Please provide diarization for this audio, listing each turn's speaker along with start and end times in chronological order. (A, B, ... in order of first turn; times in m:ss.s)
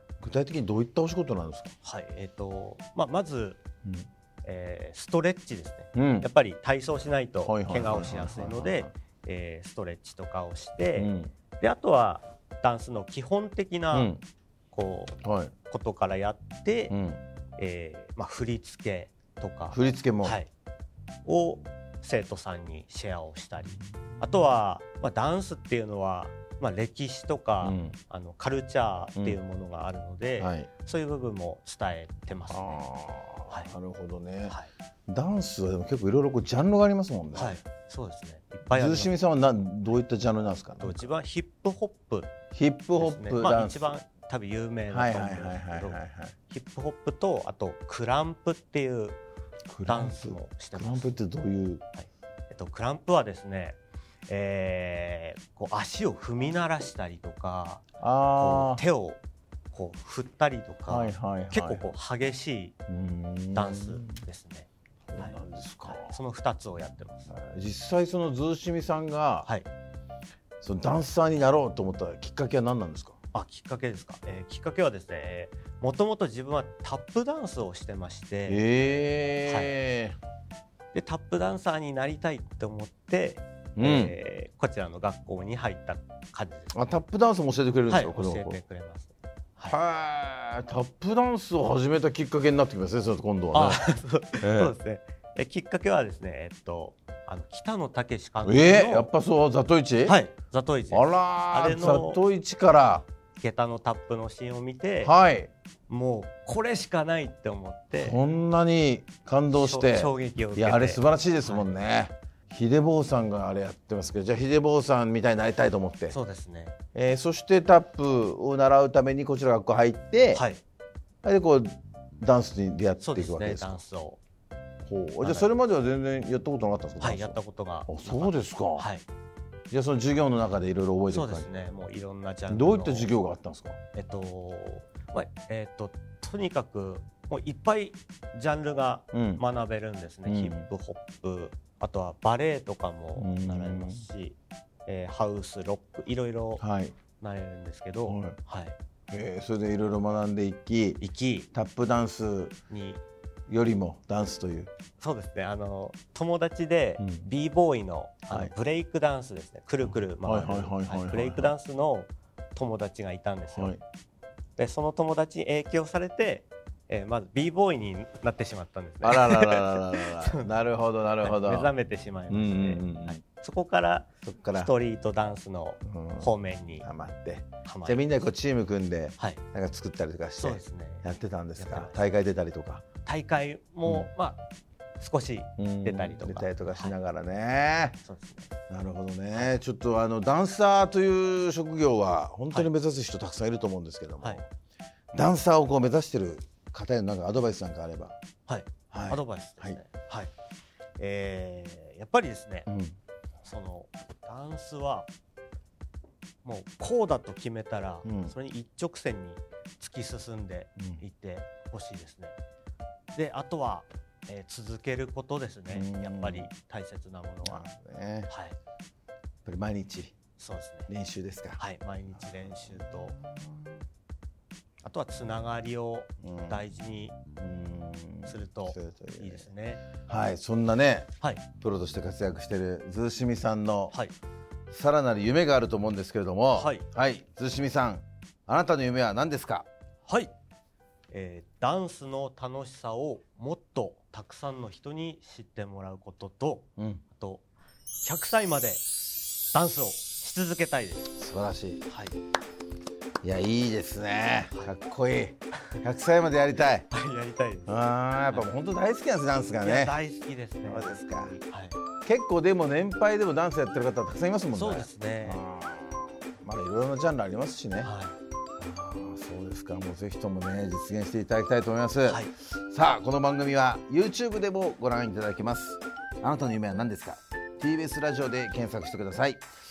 0:00.2-0:01.7 A
0:01.8-0:03.6 B
0:04.4-0:14.1 B
0:06.0-0:06.3 A
0:07.4-0:08.9 A
0:11.0-0:11.3 A
0:13.9-0:14.2 A
0:14.7-0:15.2 B
0:15.2-0:15.5 A
0:15.7-0:16.9 B
0:16.9-0:17.2 A
0:17.6-0:20.5 B
0:19.7-0:20.4 A
0:21.2-0:32.8 B
0:27.6-0:28.0 A
0:30.4-0:30.7 A
0:32.5-0:37.6 A
0:37.4-0:39.2 B
0:38.7-0:41.1 A
0:40.8-0:42.3 B
0:42.5-0:44.0 A
0:43.0-0:49.2 B
0:44.9-0:46.4 A
0:49.7-0:51.8 A
0:49.9-0:51.1 B
0:52.0-0:57.8 B
0:58.0-0:58.8 A
0:58.4-0:59.2 B
0:59.7-1:02.7 B
1:00.9-1:01.9 A
1:02.9-1:04.2 A
1:03.5-1:07.3 B
1:05.1-1:06.2 A
1:07.3-1:09.5 A
1:10.6-1:13.2 A
1:13.3-1:18.6 B
1:18.5-1:20.2 A
1:19.5-1:19.7 B
1:20.9-1:26.8 B
1:23.8-1:24.2 A
1:26.7-1:28.6 A
1:27.9-1:29.8 B
1:29.7-1:33.9 A
1:33.5-1:39.1 B
1:34.4-1:34.8 A
1:38.4-1:40.2 A
1:40.0-1:42.2 B
1:40.9-1:43.0 A
1:43.4-1:45.1 B
1:45.0-1:45.5 A
1:45.9-1:48.2 B
1:48.0-1:56.2 A
1:49.5-1:51.8 B
1:56.1-1:56.8 B
1:56.9-2:00.4 A
2:00.3-2:00.6 B
2:01.2-2:03.8 A
2:03.0-2:04.2 B
2:04.8-2:08.9 A
2:05.2-2:05.5 B
2:07.0-2:09.0 B
2:09.7-2:11.5 A
2:11.1-2:13.1 B
2:12.5-2:13.8 A
2:13.9-2:26.6 B
2:19.1-2:19.4 A
2:20.3-2:20.7 A
2:23.2-2:24.1 A
2:26.6-2:27.0 A
2:27.2-2:28.8 B
2:28.1-2:28.4 A
2:29.1-2:32.6 A
2:31.0-2:31.5 B
2:32.7-2:33.0 B
2:33.5-2:34.7 A
2:35.0-2:43.8 B
2:37.0-2:37.3 A
2:39.8-2:41.5 A
2:43.5-2:43.8 A
2:44.6-2:50.5 B
2:49.0-2:51.7 A
2:51.2-2:56.9 B
2:52.3-2:53.2 A
2:54.2-2:54.7 A
2:55.8-3:02.8 A
2:57.6-2:58.0 B
3:00.4-3:02.0 B
3:03.0-3:04.4 B
3:05.0-3:07.0 B
3:05.6-3:08.0 A
3:08.0-3:08.5 B
3:08.7-3:14.5 A
3:15.1-3:18.2 A
3:18.5-3:20.3 B
3:18.9-3:19.8 A
3:21.0-3:22.7 B
3:22.7-3:23.0 A
3:23.4-3:25.1 B
3:26.4-3:32.4 B
3:28.0-3:28.4 A
3:30.8-3:31.0 A
3:33.1-3:37.6 B
3:35.7-3:36.5 A
3:37.4-3:38.3 A
3:38.3-3:38.6 B
3:39.4-3:40.2 A
3:40.4-3:40.9 B
3:40.9-3:41.6 A
3:41.6-3:43.2 B
3:42.2-3:43.8 A
3:44.8-3:47.2 B
3:46.2-3:46.6 A
3:47.4-3:54.0 A
3:48.3-3:49.8 B
3:54.7-3:59.7 A
3:56.6-3:56.9 B
4:00.1-4:00.3 B
4:01.1-4:07.4 B
4:08.0-4:08.8 B
4:09.5-4:11.1 B
4:11.2-4:11.9 A
4:11.9-4:12.2 B
4:13.2-4:16.9 A
4:16.9-4:18.5 B
4:17.7-4:20.0 A
4:19.6-4:21.8 B
4:20.6-4:21.4 A
4:22.0-4:27.9 A
4:24.5-4:25.4 B
4:27.8-4:28.2 B
4:28.6-4:39.4 A